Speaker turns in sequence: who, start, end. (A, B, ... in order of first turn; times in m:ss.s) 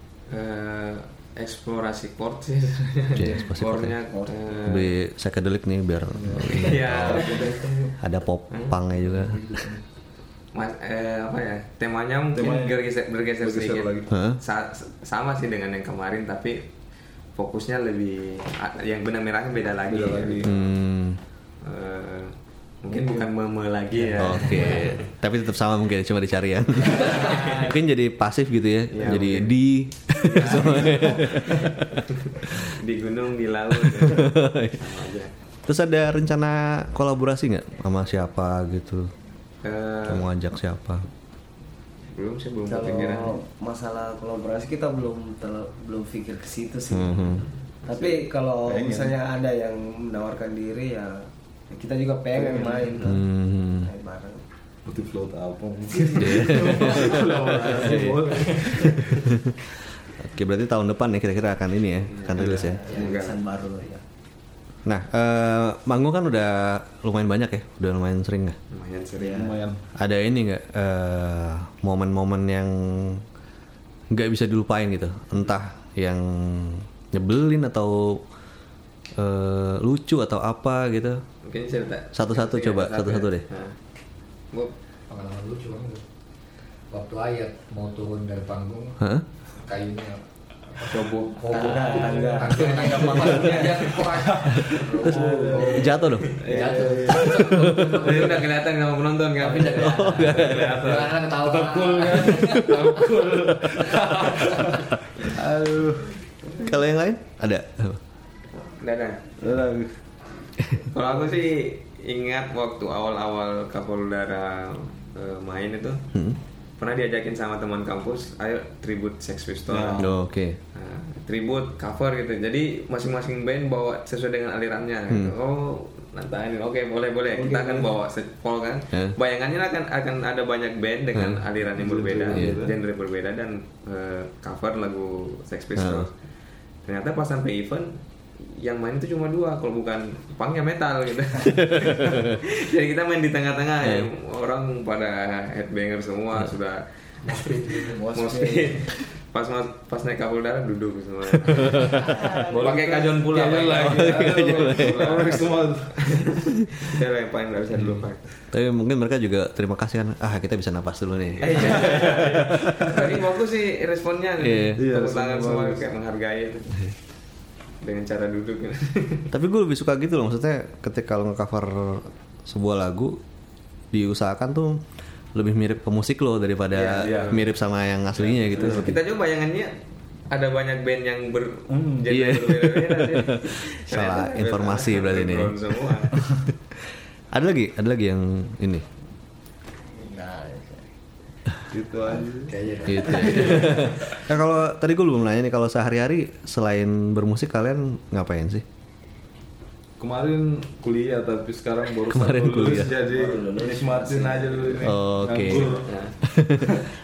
0:00.3-0:05.0 A
0:03.1-0:04.0 B
0:04.1-0:04.6 C
0:04.6-0:07.4 B
0:06.1-0:07.7 D
0:06.3-0:07.9 A
0:07.3-0:07.8 C
0:08.0-0:09.7 B
0:08.5-0:08.8 A
0:09.0-0:09.8 D
0:10.5-0:16.7 A
0:12.3-0:12.8 D
0:13.4-0:14.1 D
0:14.1-0:14.4 B
0:17.3-0:20.6 A
0:19.8-0:20.5 D
0:20.4-0:21.2 B
0:21.6-0:25.0 A
0:22.9-0:23.3 D
0:24.2-0:32.8 B
0:27.0-0:27.5 C
0:27.0-0:27.6 A
0:28.9-0:29.6 A
0:30.2-0:35.3 A
0:33.7-0:34.8 B
0:35.6-0:39.1 B
0:39.6-0:40.3 A
0:40.0-0:41.1 B
0:42.1-0:43.4 A
0:42.6-0:47.3 C
0:46.9-0:47.4 B
0:47.9-0:49.2 D
0:47.9-0:53.2 C
0:52.3-0:53.0 D
0:53.0-0:53.9 B
0:53.8-0:54.4 C
0:54.8-0:59.1 D
0:55.9-0:58.9 C
0:56.2-0:57.3 B
1:00.2-1:02.8 B
1:02.1-1:03.4 A
1:02.3-1:03.1 D
1:02.4-1:04.0 C
1:04.8-1:08.6 B
1:08.7-1:09.4 A
1:09.2-1:09.6 C
1:09.2-1:09.8 D
1:10.0-1:13.2 B
1:14.1-1:18.2 B
1:19.2-1:21.2 B
1:21.4-1:23.8 A
1:22.1-1:23.4 B
1:25.1-1:26.0 E
1:26.9-1:29.1 E
1:29.0-1:29.2 B
1:29.6-1:30.2 E
1:30.7-1:38.4 E
1:30.8-1:34.2 A
1:31.5-1:34.0 C
1:34.2-1:38.5 D
1:34.7-1:35.8 C
1:35.7-1:36.3 B
1:36.3-1:41.1 A
1:39.4-1:43.2 E
1:39.7-1:40.8 B
1:40.2-1:46.2 D
1:42.5-1:42.9 B
1:44.0-1:44.3 E
1:46.6-1:48.0 B
1:48.8-1:49.2 A
1:49.4-1:50.0 D
1:50.8-1:56.1 A
1:56.1-1:56.4 B
1:56.8-2:00.0 A
1:59.7-2:00.2 D
2:00.0-2:00.6 B
2:00.7-2:16.1 A
2:05.1-2:05.3 B
2:07.3-2:08.0 C
2:11.2-2:11.4 B
2:11.7-2:12.8 D
2:12.3-2:12.6 B
2:15.8-2:16.1 B
2:16.8-2:38.2 A
2:21.6-2:22.4 B
2:23.8-2:24.1 B
2:27.2-2:28.9 E
2:31.4-2:32.0 B
2:32.0-2:33.1 C
2:32.6-2:36.3 D
2:33.8-2:35.2 B
2:37.7-2:38.0 D
2:38.5-2:42.1 B
2:41.4-2:46.8 A
2:41.6-2:43.0 D
2:44.4-2:44.8 B
2:44.8-2:45.9 D
2:47.8-2:49.3 A
2:49.3-2:53.2 B
2:53.9-2:54.8 B
2:55.3-2:59.0 B
2:56.7-2:57.5 A
2:56.9-2:57.4 D
2:58.2-2:58.9 D
2:58.4-2:59.8 A
3:00.3-3:06.2 A
3:02.1-3:06.2 B
3:06.7-3:08.9 B
3:09.9-3:10.8 C
3:11.7-3:12.6 D
3:12.5-3:13.9 E
3:12.8-3:18.6 B
3:13.1-3:13.6 C
3:20.0-3:26.0 D
3:22.1-3:22.9 B
3:23.0-3:25.0 C
3:24.8-3:25.7 B
3:25.5-3:26.1 A
3:26.2-3:26.8 B